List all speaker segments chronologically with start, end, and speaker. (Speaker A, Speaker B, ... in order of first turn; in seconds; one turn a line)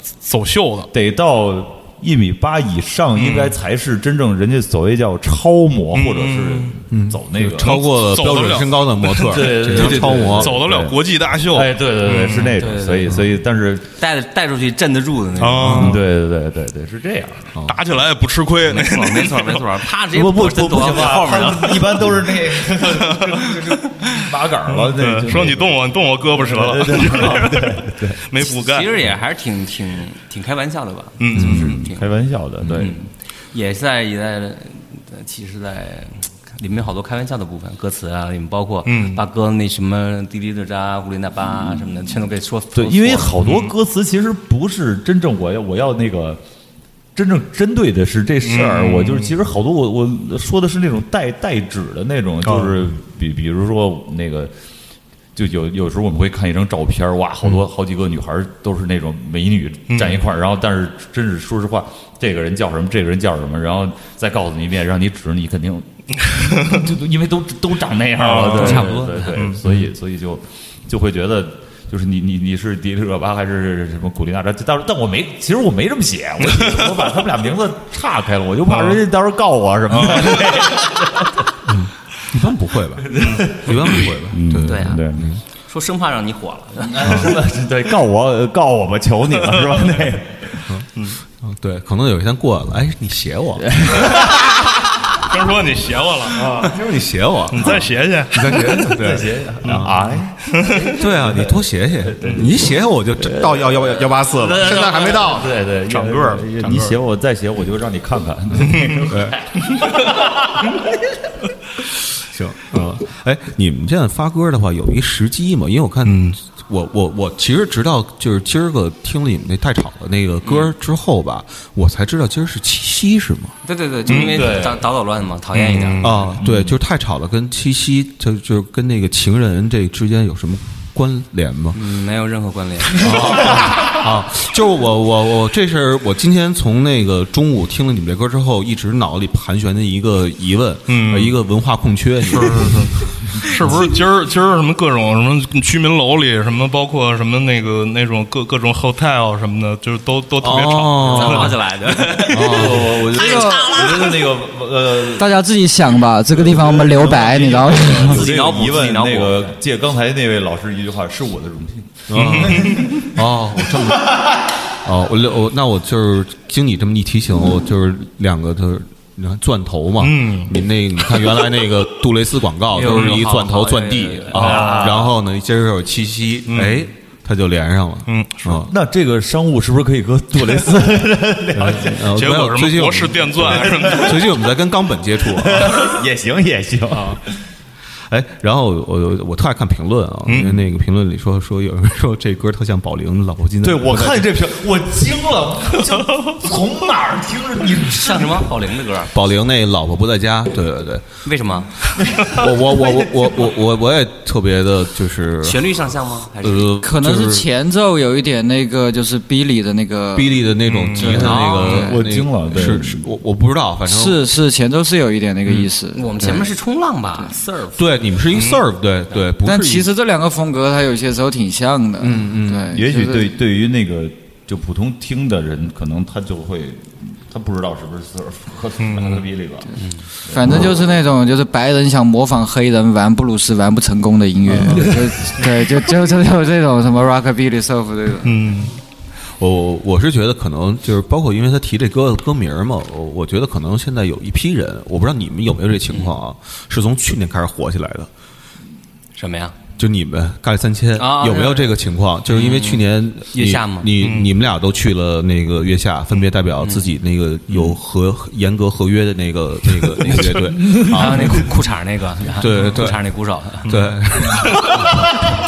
Speaker A: 0.2-0.9
Speaker B: 0.9-7.8
Speaker A: 3.1-3.6
Speaker A: 5.9-6.8
Speaker C: 6.9-10.6
Speaker A: 7.6-12.6
Speaker B: 9.2-13.9
Speaker D: 12.6-13.1
Speaker D: 14.0-15.8
Speaker A: 15.4-16.0
Speaker C: 15.6-16.0
Speaker B: 15.8-17.5
Speaker C: 17.5-17.8
Speaker A: 17.7-19.7
Speaker D: 18.7-22.1
Speaker B: 20.1-28.2
Speaker A: 22.9-23.3
Speaker A: 24.8-29.0
Speaker D: 28.4-32.1
Speaker A: 31.2-31.8
Speaker C: 31.3-31.6
Speaker B: 31.4-32.9
Speaker D: 32.7-43.4
Speaker A: 38.9-39.2
Speaker B: 41.6-41.9
Speaker B: 42.8-46.4
Speaker A: 43.4-43.7
Speaker B: 47.2-54.5
Speaker A: 48.4-49.3
Speaker A: 52.5-52.9
Speaker B: 55.4-81.5
Speaker A: 59.9-60.2
Speaker A: 66.5-66.8
Speaker A: 68.2-69.7
Speaker D: 68.6-69.3
Speaker A: 78.7-79.0
Speaker A: 80.0-80.5
Speaker C: 81.7-85.4
Speaker B: 83.0-85.2
Speaker A: 83.2-83.5
Speaker D: 84.6-85.1
Speaker D: 85.7-87.1
Speaker B: 86.9-90.6
Speaker C: 87.0-87.3
Speaker C: 91.4-94.2
Speaker B: 93.8-94.4
Speaker A: 95.1-96.6
Speaker B: 96.3-96.8
Speaker C: 96.7-100.0
Speaker A: 97.5-99.0
Speaker B: 97.6-97.8
Speaker B: 98.7-110.8
Speaker A: 99.6-99.9
Speaker A: 100.4-100.9
Speaker C: 100.8-105.5
Speaker A: 105.9-107.0
Speaker A: 108.7-109.1
Speaker C: 109.1-109.4
Speaker C: 112.2-123.6
Speaker A: 116.1-116.3
Speaker D: 120.4-120.7
Speaker D: 123.6-126.1
Speaker A: 124.1-124.5
Speaker B: 124.1-124.8
Speaker A: 125.5-126.4
Speaker C: 126.0-131.8
Speaker B: 126.4-126.7
Speaker D: 131.8-133.4
Speaker C: 133.0-142.8
Speaker A: 140.9-141.4
Speaker A: 142.3-151.6
Speaker C: 150.4-151.6
Speaker D: 151.0-154.1
Speaker C: 152.3-153.2
Speaker B: 152.3-155.3
Speaker E: 153.1-153.8
Speaker E: 155.2-158.2
Speaker B: 156.3-163.1
Speaker D: 158.0-159.5
Speaker C: 162.1-164.2
Speaker A: 162.2-162.8
Speaker C: 164.8-178.7
Speaker A: 170.0-170.5
Speaker D: 172.7-175.1
Speaker A: 172.8-173.2
Speaker B: 174.3-175.1
Speaker A: 176.5-176.8
Speaker A: 178.1-178.6
Speaker B: 178.6-182.1
Speaker C: 181.5-185.8
Speaker A: 182.1-184.4
Speaker B: 183.5-184.1
Speaker B: 185.4-187.2
Speaker C: 186.9-187.2
Speaker C: 188.1-194.3
Speaker A: 190.3-190.6
Speaker B: 193.6-198.5
Speaker D: 197.9-199.1
Speaker C: 199.1-201.1
Speaker D: 201.2-201.7
Speaker C: 202.2-205.6
Speaker D: 205.4-206.8
Speaker C: 206.4-207.4
Speaker E: 206.8-210.4
Speaker C: 210.1-214.3
Speaker A: 210.7-211.7
Speaker D: 211.0-212.0
Speaker B: 211.6-213.1
Speaker E: 213.9-216.5
Speaker D: 215.9-218.5
Speaker C: 217.8-219.9
Speaker E: 219.4-223.3
Speaker C: 222.0-222.7
Speaker B: 222.7-229.7
Speaker A: 228.8-229.2
Speaker B: 230.3-231.0
Speaker E: 230.3-238.5
Speaker C: 234.5-234.8
Speaker B: 234.7-235.3
Speaker A: 238.2-238.8
Speaker C: 239.4-248.1
Speaker D: 245.9-246.2
Speaker D: 249.2-249.6
Speaker C: 249.8-261.5
Speaker D: 250.9-253.9
Speaker A: 254.0-254.3
Speaker D: 256.6-257.0
Speaker B: 260.6-261.1
Speaker D: 260.7-263.7
Speaker C: 262.4-264.9